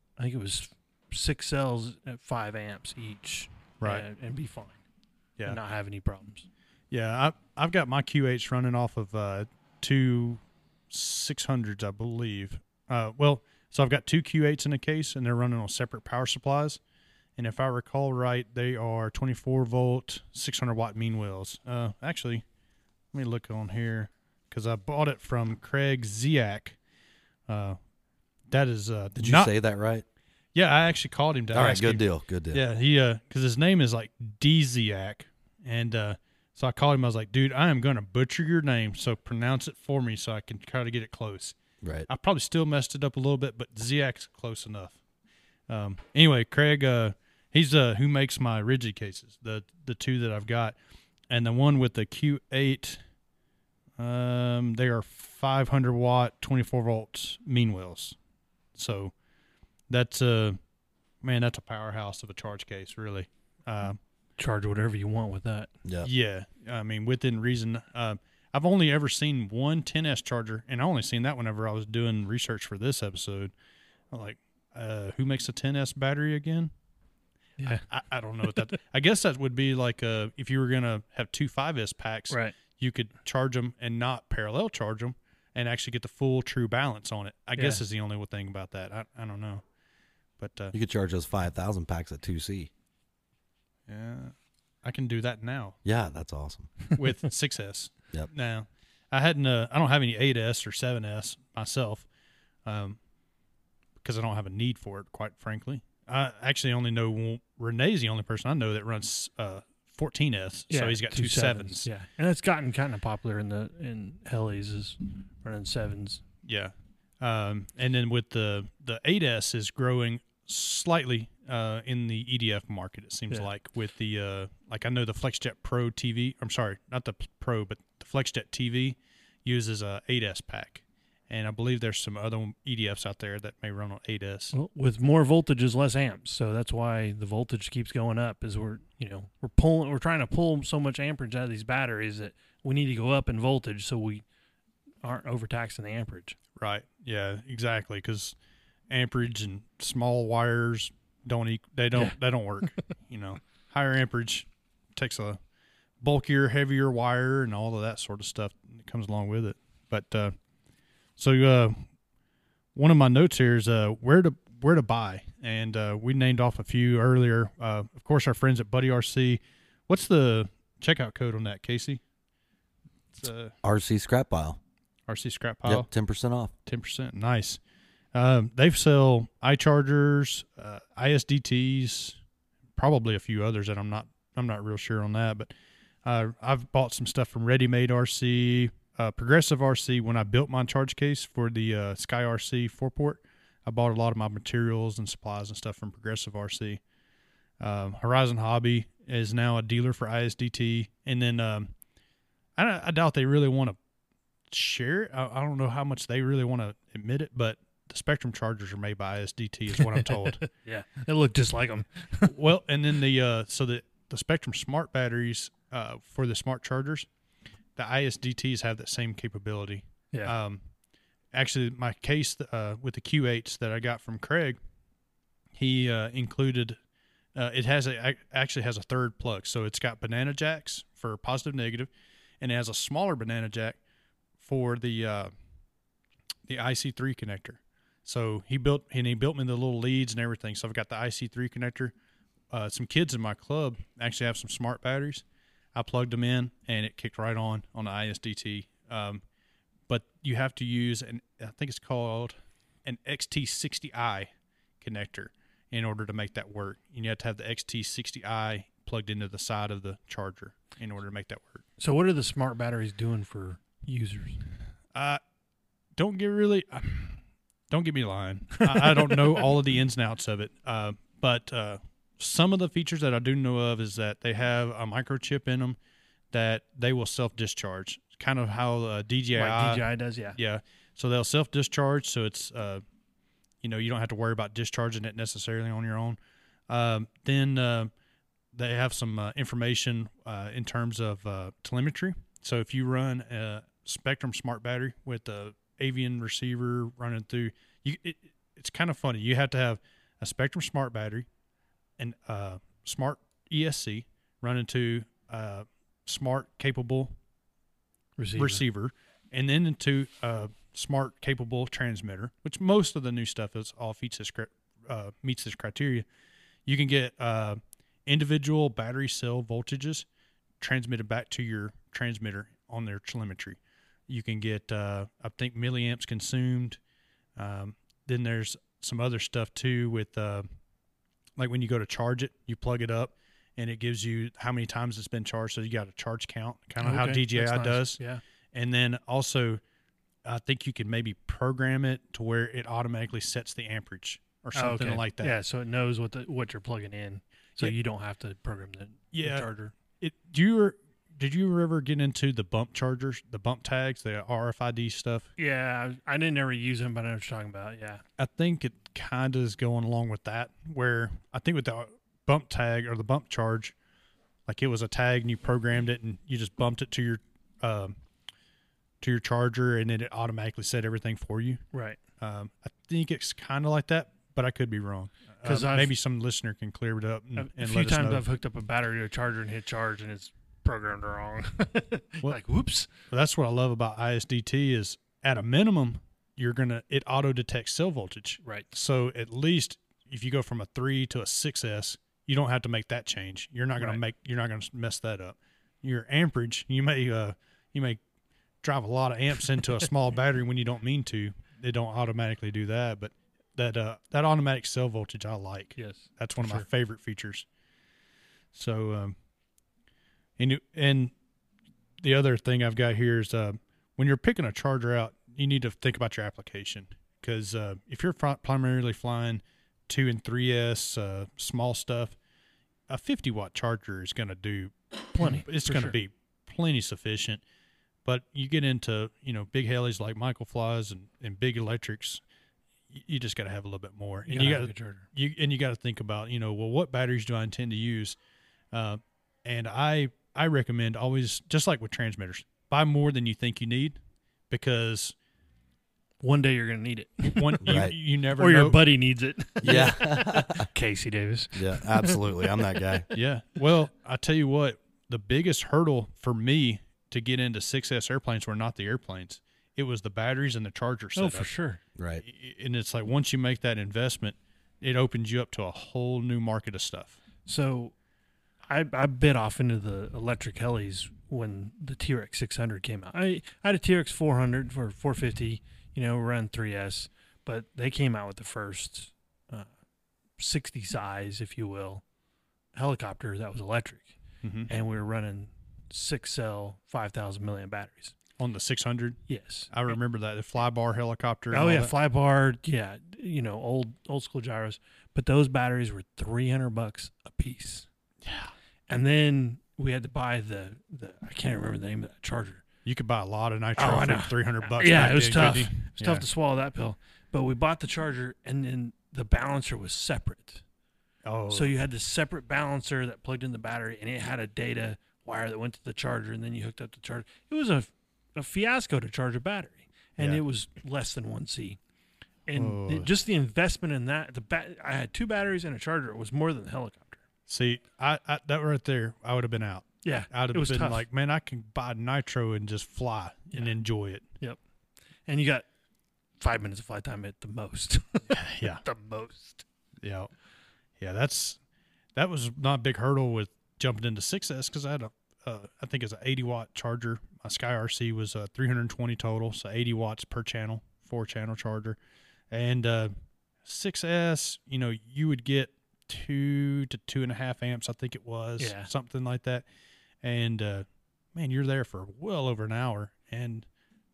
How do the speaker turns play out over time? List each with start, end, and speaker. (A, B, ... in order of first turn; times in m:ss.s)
0:00.2-0:04.8 A
0:05.4-0:06.5 A
0:06.9-0:16.8 B
0:17.4-0:22.4 B
0:23.1-0:26.8 B
0:27.5-0:27.8 B
0:28.5-0:29.5 B
0:29.2-0:30.0 C
0:30.6-0:41.6 B
0:31.5-0:32.6 C
0:41.8-0:42.1 C
0:42.1-0:45.0 B
0:45.7-0:50.8 B
0:51.3-0:53.0 B
0:54.0-0:58.2 B
0:58.8-0:59.1 B
0:59.9-1:00.6 B
1:01.2-1:04.0 B
1:04.4-1:05.7 A
1:06.0-1:13.5 B
1:14.1-1:16.7 B
1:17.6-1:17.8 A
1:17.6-1:29.6 B
1:27.6-1:27.8 A
1:30.4-1:30.8 B
1:30.7-1:32.7 C
1:33.9-1:35.8 B
1:35.8-1:36.7 C
1:36.9-1:42.1 B
1:42.6-1:43.0 B
1:44.0-1:51.9 B
1:50.7-1:56.2 A
1:56.4-2:14.5 B
2:14.5-2:24.2 A
2:25.0-2:26.4 A
2:26.6-2:28.4 B
2:28.9-2:35.4 B
2:36.0-2:40.4 B
2:41.2-2:41.8 B
2:42.8-2:52.0 B
2:53.1-2:53.6 B
2:53.6-2:54.6 C
2:55.1-2:55.9 B
2:55.6-2:56.5 C
2:56.7-2:57.6 B
2:58.1-3:02.2 B
3:02.8-3:05.5 B
3:06.0-3:16.8 B
3:17.6-3:21.7 B
3:22.6-3:23.8 B
3:24.5-3:30.4 B
3:29.8-3:32.3 A
3:32.2-3:37.1 B
3:37.8-3:40.6 B
3:41.3-3:44.6 B
3:45.6-3:46.8 B
3:47.4-3:51.9 B
3:52.4-3:53.8 B
3:54.4-3:55.3 B
3:56.5-4:01.9 B
4:02.5-4:05.2 B
4:05.8-4:09.2 B
4:09.9-4:14.3 B
4:14.8-4:21.6 B
4:21.8-4:24.4 A
4:25.0-4:25.2 B
4:26.0-4:35.8 B
4:28.7-4:29.2 A
4:36.3-4:42.8 B
4:39.4-4:40.4 A
4:43.6-4:46.2 B
4:46.7-4:47.9 B
4:48.5-5:01.3 B
5:02.0-5:07.2 B
5:08.2-5:08.6 A
5:08.4-5:16.1 B
5:16.7-5:20.1 B
5:20.6-5:26.8 B
5:27.4-5:30.5 B
5:31.4-5:38.0 B
5:36.8-5:38.2 A
5:38.5-5:39.6 B
5:40.2-5:45.3 B
5:44.6-5:49.7 A
5:49.1-5:55.3 B
5:55.4-5:58.0 A
5:58.2-6:03.7 B
6:04.5-6:08.0 B
6:09.0-6:11.6 B
6:11.7-6:12.0 A
6:12.2-6:18.2 B
6:15.4-6:15.9 A
6:17.4-6:22.9 A
6:23.1-6:38.0 B
6:28.4-6:28.7 A
6:38.6-6:47.5 B
6:45.8-6:46.6 A
6:48.5-6:49.2 B
6:50.4-6:51.1 B
6:52.0-7:02.2 B
7:02.9-7:07.4 B
7:05.2-7:06.0 A
7:08.0-7:12.2 B
7:12.9-7:18.2 B
7:14.3-7:15.0 A
7:18.7-7:24.0 B
7:24.5-7:25.2 B
7:26.2-7:27.8 A
7:27.4-7:28.8 B
7:27.6-7:28.0 C
7:28.4-7:33.0 A
7:29.6-7:30.7 C
7:31.5-7:33.1 C
7:33.1-7:41.5 B
7:41.2-7:41.8 A
7:42.0-7:42.2 C
7:42.2-7:47.2 B
7:47.5-7:47.9 A
7:48.7-7:59.7 A
8:00.4-8:02.0 A
8:02.7-8:04.2 A
8:04.4-8:04.7 B
8:04.7-8:08.2 A
8:08.4-8:09.2 B
8:09.3-8:10.0 A
8:09.7-8:11.9 B
8:11.5-8:17.9 A
8:18.2-8:18.5 B
8:18.9-8:22.6 A
8:22.8-8:26.2 B
8:23.8-8:30.6 A
8:31.2-8:31.7 B
8:31.5-8:41.8 A
8:42.5-8:47.2 A
8:42.6-8:43.1 B
8:47.5-8:54.2 B
8:50.0-8:51.0 A
8:55.3-8:55.6 A
8:56.4-8:59.6 A
8:58.3-8:58.8 B
9:00.0-9:00.3 B
9:01.0-9:01.6 B
9:02.2-9:12.0 B
9:12.5-9:13.1 B
9:13.6-9:19.7 B
9:18.6-9:18.9 A
9:20.2-9:23.7 B